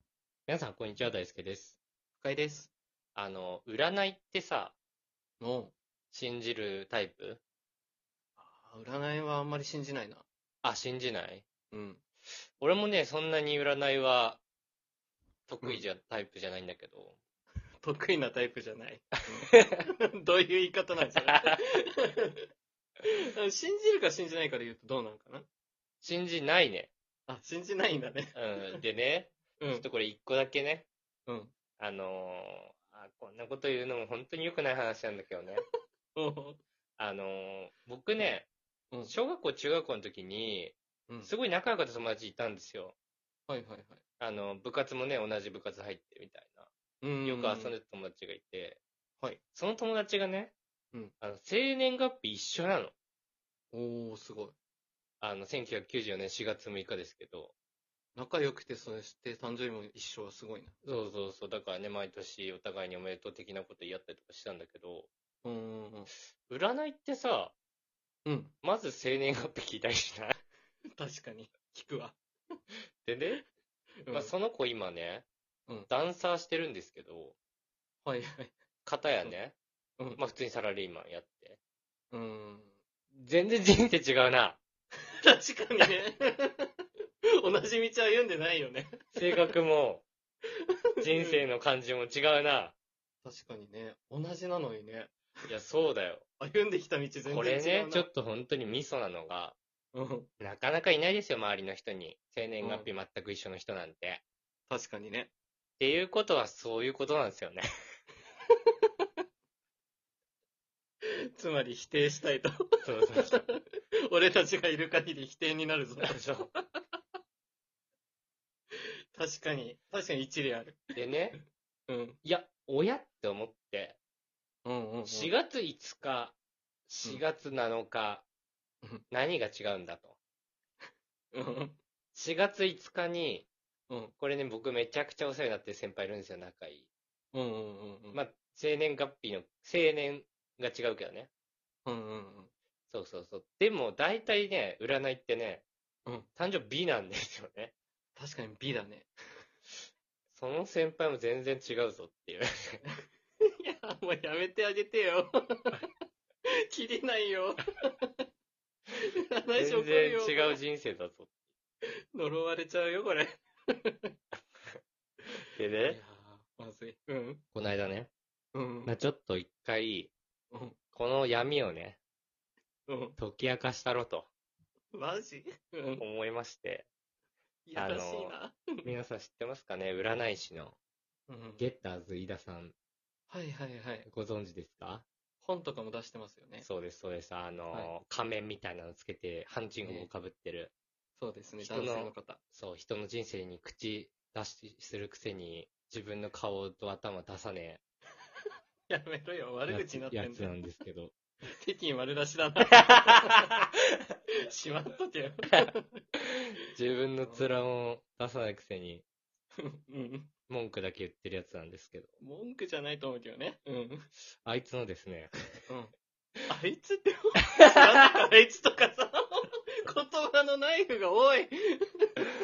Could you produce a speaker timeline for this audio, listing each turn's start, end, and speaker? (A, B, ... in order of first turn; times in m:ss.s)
0:00.5-0:01.8 A
0:02.2-0:02.7 B
0:03.1-0:04.7 A
0:05.4-0:05.7 B
0:06.1-0:07.4 A
0:08.4-0:10.2 B
0:10.6-0:11.4 A
0:11.7-0:12.0 B
0:12.6-0:14.4 A
0:15.5-0:17.2 A
0:17.8-0:22.4 B
0:23.0-0:25.4 B
0:26.0-0:26.9 A
0:27.3-0:28.8 B
0:28.3-0:30.8 A
0:29.6-0:29.8 B
0:31.3-0:31.5 B
0:31.8-0:35.6 A
0:36.1-0:36.6 B
0:37.0-0:38.5 A
0:38.9-0:39.2 B
0:39.0-0:42.9 A
0:43.5-0:44.0 B
0:44.2-0:46.7 A
0:47.0-0:47.7 B
0:47.2-0:48.8 A
0:49.5-0:50.5 A
0:51.2-0:52.9 A
0:53.7-0:54.5 B
0:55.2-0:57.5 A
0:58.1-1:00.7 B
1:00.8-1:05.1 A
1:05.4-1:06.1 B
1:06.5-1:07.5 A
1:08.2-1:08.5 B
1:08.6-1:10.4 A
1:11.0-1:12.2 B
1:13.0-1:13.4 A
1:14.0-1:14.3 B
1:14.1-1:15.2 A
1:15.9-1:17.4 A
1:18.0-1:18.5 B
1:18.8-1:19.5 A
1:20.2-1:21.6 A
1:22.1-1:22.7 B
1:23.1-1:24.6 A
1:25.2-1:26.7 B
1:27.4-1:29.0 B
1:29.1-1:30.0 A
1:31.0-1:31.5 B
1:31.0-1:32.7 A
1:33.2-1:35.1 B
1:35.5-1:36.2 A
1:36.4-1:38.1 B
1:37.3-1:39.6 A
1:39.9-1:40.3 B
1:40.4-1:44.2 A
1:42.6-1:42.9 B
1:44.7-1:45.3 B
1:45.8-1:47.6 A
1:51.4-1:52.5 B
1:52.8-1:53.5 A
1:53.2-1:56.6 B
1:56.0-1:56.5 A
1:59.1-2:02.2 B
2:00.9-2:01.4 A
2:02.2-2:04.0 A
2:04.6-2:05.3 B
2:05.0-2:06.4 A
2:06.9-2:08.2 A
2:09.1-2:10.1 A
2:11.3-2:11.8 B
2:12.1-2:13.5 A
2:13.9-2:14.1 B
2:14.2-2:16.8 A
2:17.3-2:18.2 B
2:18.1-2:21.3 A
2:21.8-2:22.5 B
2:22.9-2:25.6 A
2:26.3-2:27.7 A
2:28.1-2:29.1 B
2:30.3-2:32.8 A
2:32.9-2:35.8 B
2:36.7-2:38.1 B
2:39.0-2:40.6 B
2:39.5-2:41.3 A
2:42.1-2:44.1 B
2:45.5-2:46.0 A
2:45.9-2:47.4 B
2:47.5-2:48.1 A
2:48.5-2:48.9 B
2:48.8-2:50.1 A
2:50.5-2:50.8 B
2:50.9-2:52.0 A
2:52.9-2:53.2 B
2:53.2-2:54.3 A
2:54.9-2:56.0 B
2:56.0-2:56.8 A
2:57.6-2:58.9 B
2:57.7-3:00.8 A
3:01.3-3:01.7 B
3:01.6-3:02.7 A
3:03.3-3:04.1 B
3:04.0-3:05.0 A
3:05.4-3:06.7 B
3:06.6-3:10.7 A
3:09.8-3:10.1 B
3:11.2-3:12.4 B
3:11.6-3:17.8 A
3:18.9-3:20.5 B
3:19.7-3:21.1 A
3:21.6-3:23.6 B
3:24.5-3:26.0 B
3:26.7-3:29.0 A
3:27.2-3:27.5 B
3:29.6-3:30.3 B
3:30.5-3:32.1 A
3:32.2-3:34.1 B
3:34.4-3:35.3 A
3:35.7-3:35.9 B
3:36.5-3:42.3 B